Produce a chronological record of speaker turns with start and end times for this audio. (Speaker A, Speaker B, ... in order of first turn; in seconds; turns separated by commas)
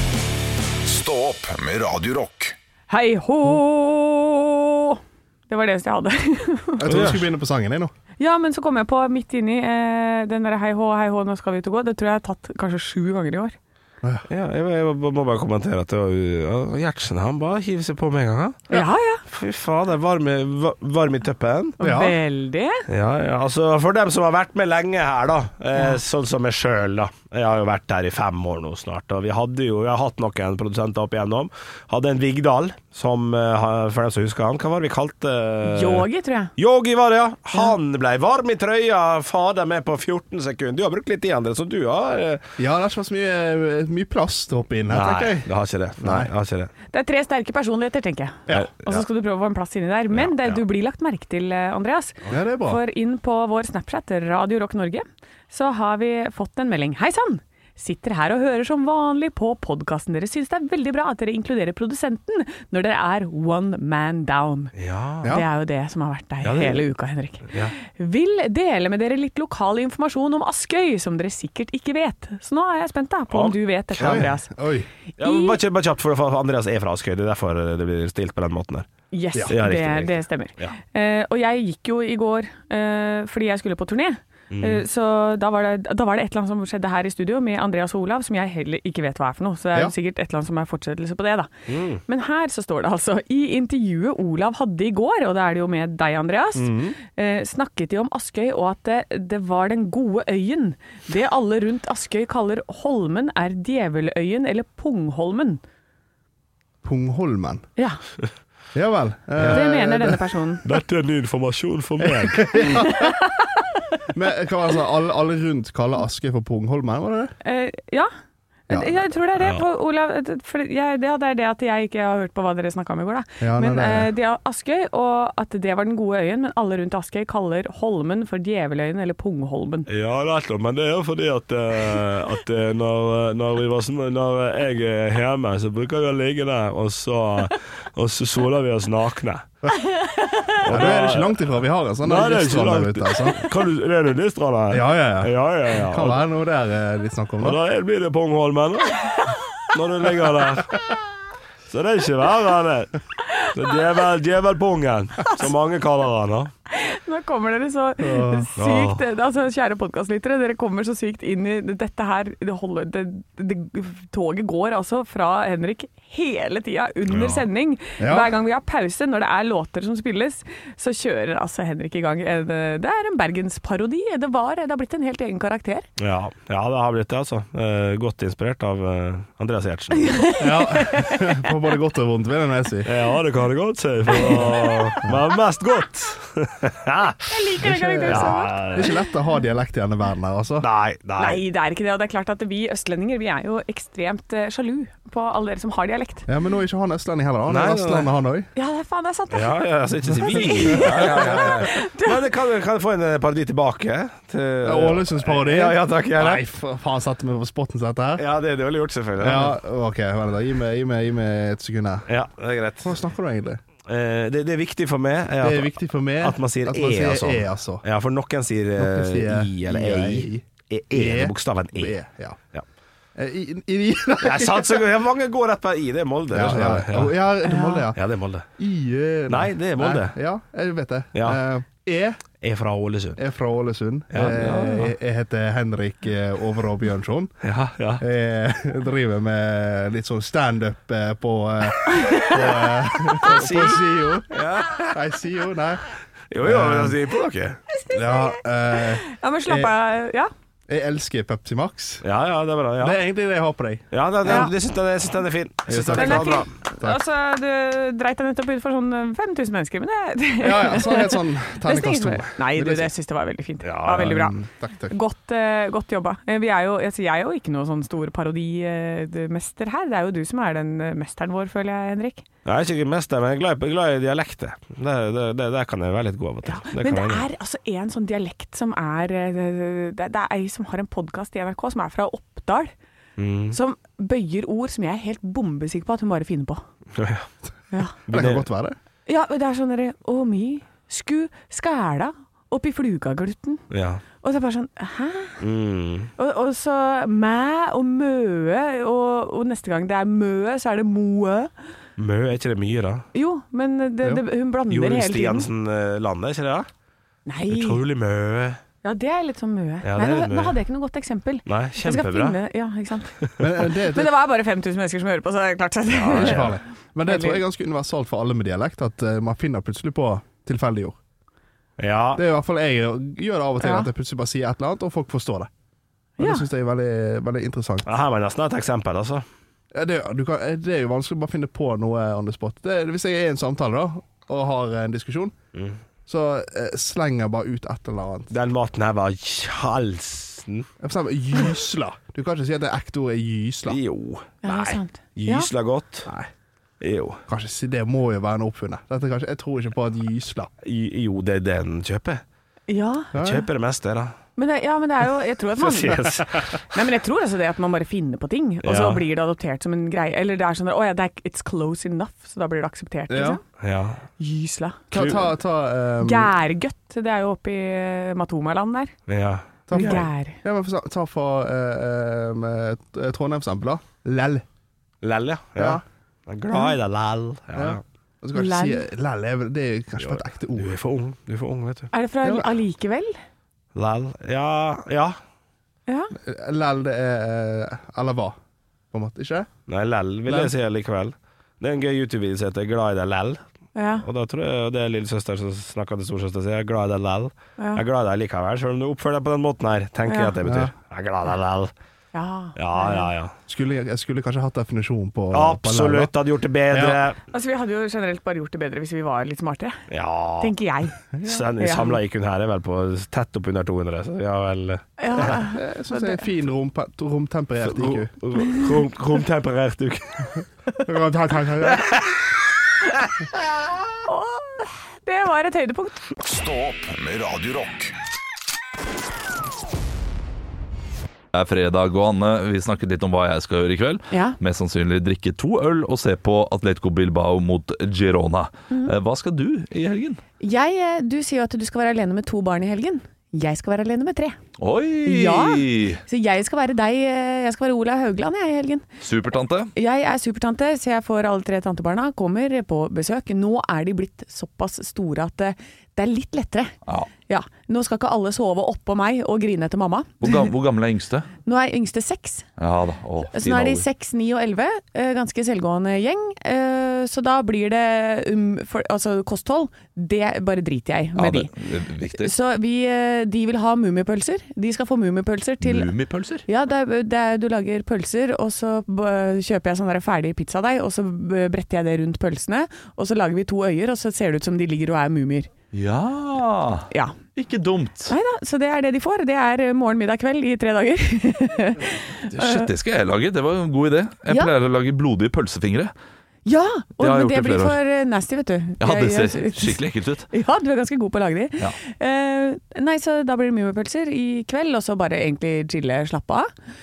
Speaker A: 0.8-2.6, Speaker B: 2.9-6.8, Speaker C: 6.8-7.9, Speaker D: 6.9-7.2, Speaker B: 8.2-13.6, Speaker D: 14.3-18.7, Speaker B: 18.7-19.2, Speaker D: 19.3-21.8, Speaker C: 21.8-22.2, Speaker B: 21.8-22.8, Speaker D: 22.9-42.4, Speaker B: 25.7-26.0, Speaker B: 35.6-36.5, Speaker C: 42.6-46.3, Speaker D: 44.9-46.7, Speaker B: 46.9-74.5, Speaker D: 48.5-49.0, Speaker D: 50.1-50.6, Speaker C: 52.3-52.8, Speaker D: 64.8-65.3, Speaker D: 66.4-66.9, Speaker D: 67.5-67.7, Speaker D: 73.3-74.3, Speaker C: 74.0-74.9, Speaker B: 75.2-75.6, Speaker D: 75.2-78.9, Speaker B: 79.1-91.5, Speaker D: 79.5-80.8, Speaker D: 84.5-84.8, Speaker D: 91.7-92.0, Speaker B: 92.1-105.6, Speaker C: 96.6-97.0, Speaker C: 106.8-107.6, Speaker C: 108.7-110.2, Speaker D: 109.4-109.6, Speaker B: 109.5-110.6, Speaker D: 110.6-112.8, Speaker C: 112.2-113.2, Speaker B: 112.7-113.6, Speaker C: 114.1-117.3, Speaker B: 117.4-118.1, Speaker C: 118.7-119.1, Speaker B: 118.7-129.9, Speaker D: 119.4-119.6, Speaker C: 123.4-124.1, Speaker D: 129.9-139.4, Speaker B: 139.9-140.5, Speaker D: 140.6-141.4, Speaker C: 140.7-143.5, Speaker D: 142.0-146.2, Speaker C: 144.7-147.6, Speaker D: 147.4-150.8, Speaker D: 151.7-156.5, Speaker B: 156.7-175.8, Speaker C: 158.0-158.5, Speaker D: 158.6-159.0, Speaker D: 167.1-167.4, Speaker C: 168.0-168.3, Speaker D: 176.0-180.2, Speaker B: 180.0-181.5, Speaker C: 180.4-182.9, Speaker D: 182.8-187.3, Speaker C: 184.1-184.5, Speaker B: 184.2-184.9, Speaker B: 187.3-188.9, Speaker C: 187.6-190.7, Speaker D: 188.1-188.9, Speaker D: 190.6-191.4, Speaker B: 191.2-196.3, Speaker C: 196.3-198.5, Speaker D: 197.5-198.1, Speaker B: 198.6-199.6, Speaker D: 199.3-206.4, Speaker B: 200.3-202.2, Speaker C: 200.7-201.7, Speaker C: 204.6-208.2, Speaker D: 208.2-209.5, Speaker C: 209.2-212.1, Speaker D: 212.1-213.0, Speaker C: 212.8-213.6, Speaker D: 213.9-222.0, Speaker C: 215.4-217.8, Speaker C: 218.8-222.4, Speaker C: 223.2-224.9, Speaker D: 224.2-227.1, Speaker C: 226.3-232.2, Speaker B: 227.4-227.9, Speaker D: 228.0-228.5, Speaker D: 229.3-230.2, Speaker D: 232.4-233.2, Speaker C: 233.2-237.4, Speaker D: 234.1-234.9, Speaker D: 237.4-238.0, Speaker C: 238.0-245.9, Speaker B: 242.0-242.3, Speaker D: 243.2-244.9, Speaker D: 246.3-247.6, Speaker C: 246.4-247.0, Speaker B: 247.7-250.3, Speaker C: 247.9-249.7, Speaker C: 250.7-252.0, Speaker D: 252.0-253.0, Speaker C: 252.8-254.5, Speaker D: 253.9-256.5, Speaker B: 254.2-254.5, Speaker C: 255.7-257.0, Speaker B: 255.9-264.4, Speaker C: 260.4-262.9, Speaker D: 263.6-264.1, Speaker C: 263.8-264.9, Speaker B: 264.9-272.2, Speaker D: 272.4-277.3, Speaker B: 276.4-282.7, Speaker D: 283.2-283.6, Speaker B: 283.5-286.6, Speaker D: 286.9-287.3, Speaker D: 288.1-288.5, Speaker C: 288.1-288.8, Speaker B: 289.1-293.6, Speaker D: 293.7-294.0, Speaker B: 294.2-295.4, Speaker D: 295.4-296.1, Speaker B: 296.2-301.5, Speaker D: 302.0-303.1, Speaker B: 303.1-305.5, Speaker D: 304.7-306.7, Speaker B: 307.3-307.8, Speaker D: 307.5-308.6, Speaker B: 308.8-316.6, Speaker D: 309.8-310.6, Speaker D: 311.5-312.4, Speaker C: 313.4-314.1, Speaker C: 316.0-321.0, Speaker D: 316.1-316.5, Speaker B: 317.1-317.4, Speaker D: 321.8-322.2, Speaker C: 322.1-325.5, Speaker B: 323.6-323.9, Speaker B: 326.2-326.5, Speaker C: 326.2-327.9, Speaker D: 327.9-329.3, Speaker C: 329.7-335.4, Speaker C: 336.1-338.3, Speaker D: 338.3-340.7, Speaker C: 340.8-343.8, Speaker D: 343.7-346.1, Speaker B: 344.4-345.5, Speaker D: 346.8-347.2, Speaker C: 347.3-350.5, Speaker D: 350.6-352.2, Speaker B: 352.7-353.1, Speaker C: 353.1-353.5, Speaker D: 353.2-354.1, Speaker B: 354.4-363.4, Speaker D: 355.6-356.7, Speaker D: 358.6-359.0, Speaker C: 363.1-363.4, Speaker D: 363.6-364.0, Speaker B: 364.2-365.2, Speaker C: 364.9-366.3, Speaker D: 364.9-365.2, Speaker B: 366.0-368.9, Speaker D: 369.1-370.1, Speaker C: 369.7-374.4, Speaker B: 369.7-370.4, Speaker D: 375.0-377.8, Speaker C: 375.6-375.8, Speaker C: 377.6-380.8, Speaker B: 378.3-378.8, Speaker D: 380.0-381.9, Speaker B: 381.9-383.2, Speaker C: 382.2-382.6, Speaker D: 383.8-385.2, Speaker B: 385.9-386.1, Speaker C: 386.2-388.4, Speaker C: 388.9-389.5, Speaker D: 389.7-393.4, Speaker C: 390.3-390.5, Speaker B: 393.8-394.1, Speaker D: 394.0-401.7, Speaker B: 400.1-400.4, Speaker C: 400.4-400.7, Speaker B: 402.1-403.1, Speaker D: 402.6-403.3, Speaker C: 403.5-406.1, Speaker D: 405.3-407.2, Speaker C: 406.7-407.0, Speaker B: 407.3-409.9, Speaker D: 409.9-410.5, Speaker B: 410.4-412.0, Speaker D: 411.2-414.8, Speaker B: 415.0-416.2, Speaker C: 415.2-418.1, Speaker D: 417.6-420.4, Speaker C: 420.9-421.9, Speaker D: 421.6-422.4, Speaker B: 424.1-426.0, Speaker A: 426.2-427.9, Speaker E: 431.3-440.2, Speaker B: 434.1-434.4, Speaker B: 440.4-444.4, Speaker E: 444.6-446.0, Speaker B: 445.0-448.9, Speaker E: 449.0-449.7, Speaker B: 449.8-456.7, Speaker B: 457.3-460.5, Speaker E: 460.2-461.3, Speaker B: 461.5-462.4, Speaker E: 462.6-463.9, Speaker B: 463.3-471.5, Speaker E: 471.2-472.3, Speaker B: 472.1-475.9, Speaker E: 475.6-476.4, Speaker B: 476.5-485.5, Speaker E: 485.7-488.1, Speaker B: 486.9-487.2, Speaker B: 488.1-492.7, Speaker E: 492.3-495.9, Speaker B: 496.4-499.8, Speaker E: 497.0-497.8, Speaker E: 498.8-500.3, Speaker B: 500.3-506.5